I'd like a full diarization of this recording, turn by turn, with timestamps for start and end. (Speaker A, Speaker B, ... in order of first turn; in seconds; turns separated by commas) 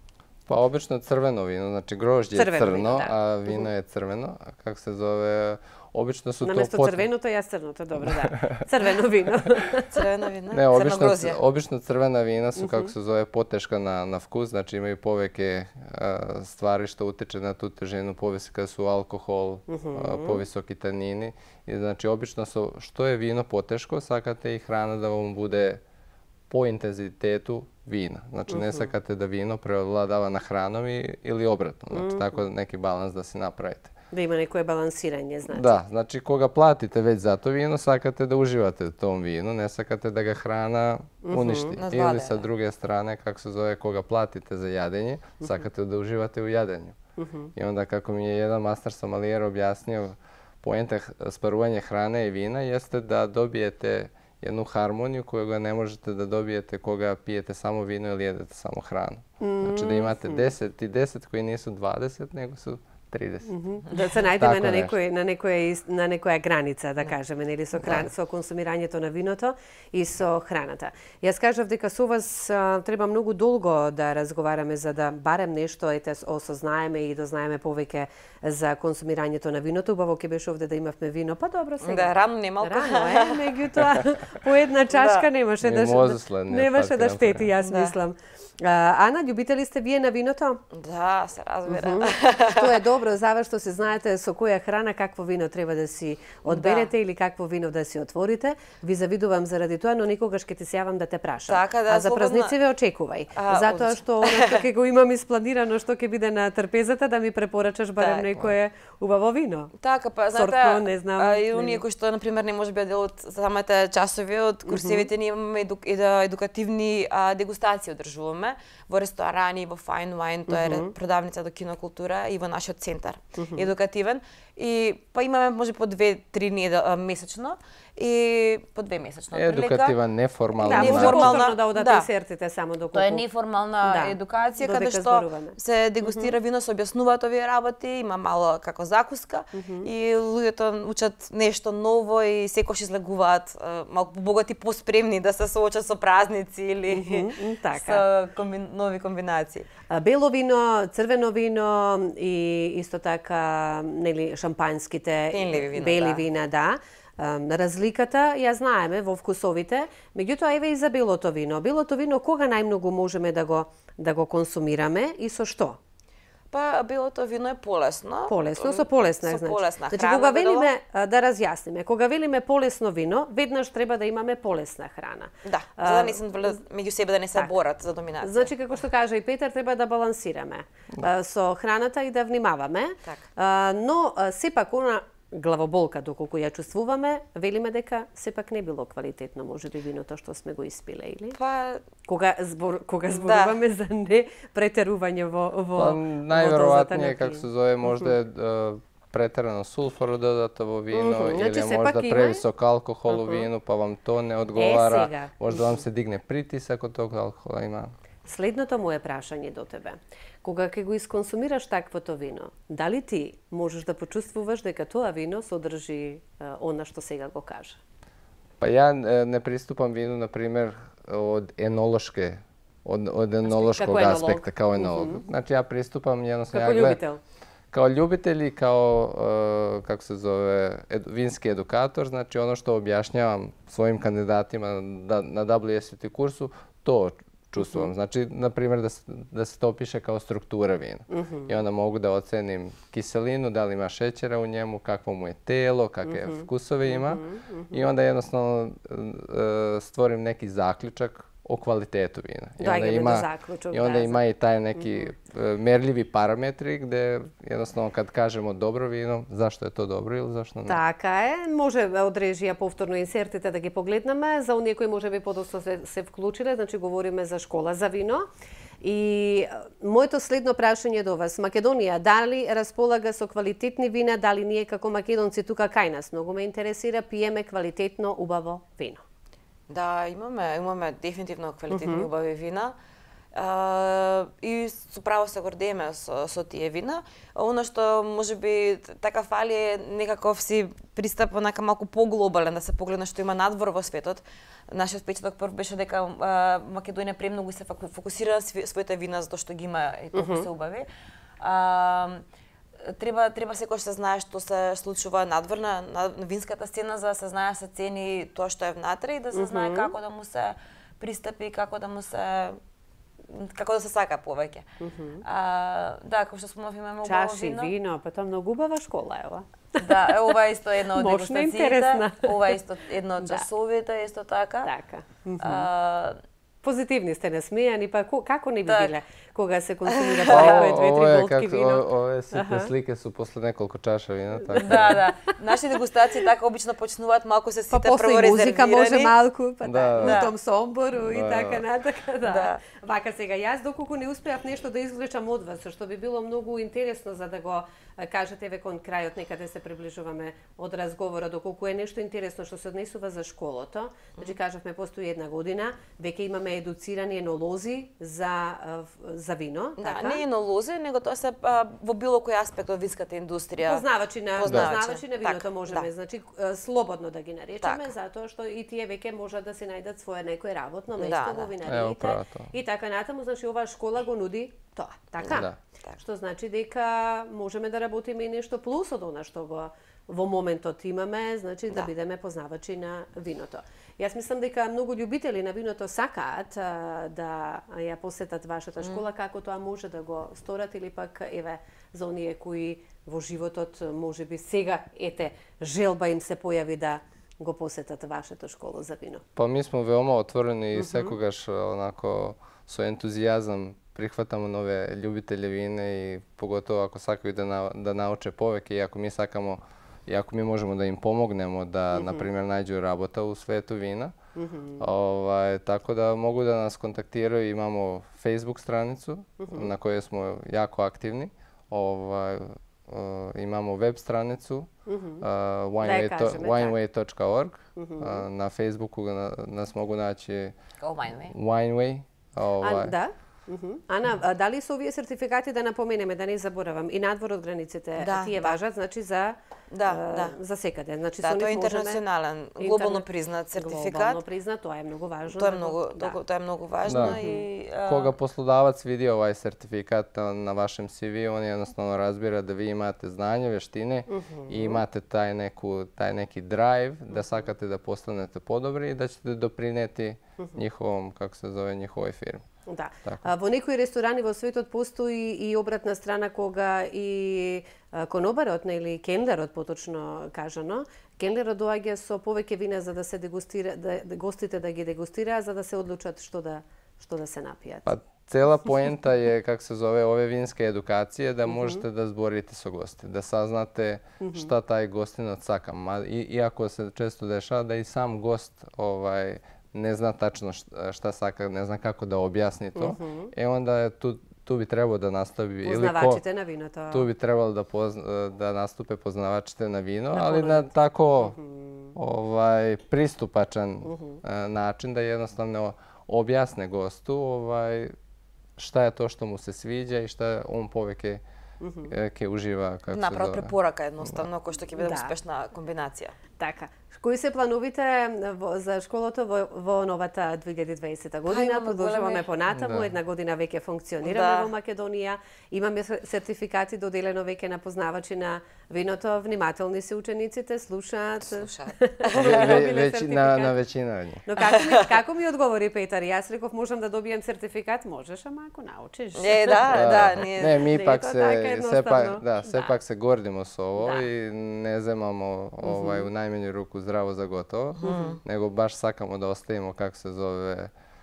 Speaker A: 0.5-7.1, Speaker B: 2.3-3.6, Speaker B: 6.4-10.0, Speaker A: 8.2-8.6, Speaker C: 9.9-11.4, Speaker A: 10.5-25.8, Speaker B: 12.6-12.9, Speaker B: 19.7-20.4, Speaker A: 26.5-33.9, Speaker B: 28.5-28.9, Speaker B: 31.9-32.3, Speaker B: 34.1-35.8, Speaker A: 35.5-47.0, Speaker B: 41.2-41.8, Speaker C: 41.8-42.4, Speaker B: 47.2-47.5, Speaker A: 47.5-63.5, Speaker B: 59.4-60.5, Speaker B: 63.5-90.6, Speaker A: 64.4-64.9, Speaker C: 81.8-83.7, Speaker C: 84.9-85.3, Speaker A: 85.6-87.5, Speaker C: 87.6-88.0, Speaker C: 90.7-92.8, Speaker B: 91.7-109.7, Speaker C: 96.5-96.9, Speaker C: 101.5-102.5, Speaker C: 103.3-104.6, Speaker C: 108.0-108.3, Speaker C: 109.8-130.0, Speaker B: 110.3-111.8, Speaker B: 114.7-115.1, Speaker B: 120.5-120.9, Speaker B: 123.4-123.7, Speaker A: 129.3-131.4, Speaker B: 130.6-133.2, Speaker C: 130.6-132.1, Speaker C: 132.9-149.7, Speaker B: 133.8-136.3, Speaker B: 139.5-139.9, Speaker B: 146.9-148.0, Speaker B: 149.9-165.8, Speaker C: 155.3-156.2, Speaker C: 166.5-170.7, Speaker B: 168.3-176.2, Speaker C: 175.4-178.5, Speaker B: 178.2-191.4, Speaker C: 191.3-191.8, Speaker B: 192.1-198.1, Speaker C: 193.1-193.6, Speaker A: 195.8-207.9, Speaker B: 200.9-202.4, Speaker B: 203.1-203.4, Speaker B: 204.6-205.8, Speaker B: 208.3-217.8, Speaker A: 218.6-227.0, Speaker B: 223.5-225.2, Speaker B: 226.5-227.2, Speaker A: 227.7-260.8, Speaker B: 237.6-237.9, Speaker B: 241.1-241.5, Speaker B: 246.0-247.7, Speaker B: 252.6-254.2, Speaker B: 254.8-255.1, Speaker B: 260.7-268.3, Speaker B: 268.8-279.0, Speaker C: 279.7-282.7, Speaker B: 281.7-282.1, Speaker C: 283.3-300.9, Speaker B: 300.1-300.5, Speaker C: 301.4-302.2, Speaker C: 302.8-312.6, Speaker B: 309.3-309.9, Speaker C: 313.2-314.6, Speaker B: 314.8-315.2, Speaker C: 315.2-317.7, Speaker B: 317.0-319.8, Speaker C: 319.8-324.7, Speaker B: 320.9-322.6, Speaker B: 324.6-325.7, Speaker C: 325.4-326.2, Speaker B: 326.6-332.7, Speaker C: 328.7-328.9, Speaker C: 329.9-330.7, Speaker A: 330.3-335.1, Speaker B: 334.4-335.0, Speaker C: 334.6-339.1, Speaker B: 337.7-360.2, Speaker A: 339.6-340.2, Speaker C: 340.0-340.3, Speaker A: 341.0-341.6, Speaker C: 342.2-342.6, Speaker C: 359.8-365.9, Speaker B: 363.6-399.2, Speaker A: 364.4-364.7, Speaker C: 367.6-367.9, Speaker C: 371.0-371.5, Speaker A: 371.6-372.5, Speaker C: 375.2-376.0, Speaker A: 375.3-375.6, Speaker A: 399.4-414.1, Speaker B: 400.8-401.1, Speaker B: 411.9-412.3, Speaker B: 414.4-414.8, Speaker A: 414.8-424.7, Speaker B: 419.4-419.7, Speaker B: 424.9-425.2, Speaker A: 425.2-430.5, Speaker B: 425.8-426.8, Speaker B: 427.8-428.2, Speaker C: 430.8-431.3, Speaker A: 431.3-432.9, Speaker B: 432.6-442.0, Speaker C: 438.0-438.6, Speaker C: 439.7-440.3, Speaker C: 441.2-444.2, Speaker B: 442.6-446.2, Speaker C: 445.3-448.1, Speaker A: 446.9-447.2, Speaker B: 446.9-447.4, Speaker A: 447.9-462.4, Speaker B: 454.1-454.8, Speaker B: 457.1-457.4, Speaker B: 462.7-477.9, Speaker A: 477.9-496.2, Speaker B: 481.4-481.8, Speaker B: 484.2-484.5, Speaker B: 492.8-493.3, Speaker B: 495.6-497.1, Speaker A: 496.9-501.4, Speaker B: 500.1-500.7, Speaker B: 501.2-501.9, Speaker A: 501.9-507.9, Speaker B: 503.8-504.2, Speaker A: 508.6-511.2, Speaker B: 511.6-511.9, Speaker A: 511.9-514.3, Speaker C: 512.9-516.1, Speaker B: 514.8-515.1, Speaker B: 516.4-533.5, Speaker C: 521.3-522.3, Speaker A: 522.5-522.9, Speaker C: 524.0-524.5, Speaker C: 531.2-532.6, Speaker A: 532.1-534.2, Speaker B: 534.2-542.7, Speaker C: 534.4-534.9, Speaker C: 539.1-540.7, Speaker A: 539.7-550.7, Speaker B: 543.8-544.0, Speaker B: 545.6-546.0, Speaker C: 547.8-548.2, Speaker B: 547.8-548.2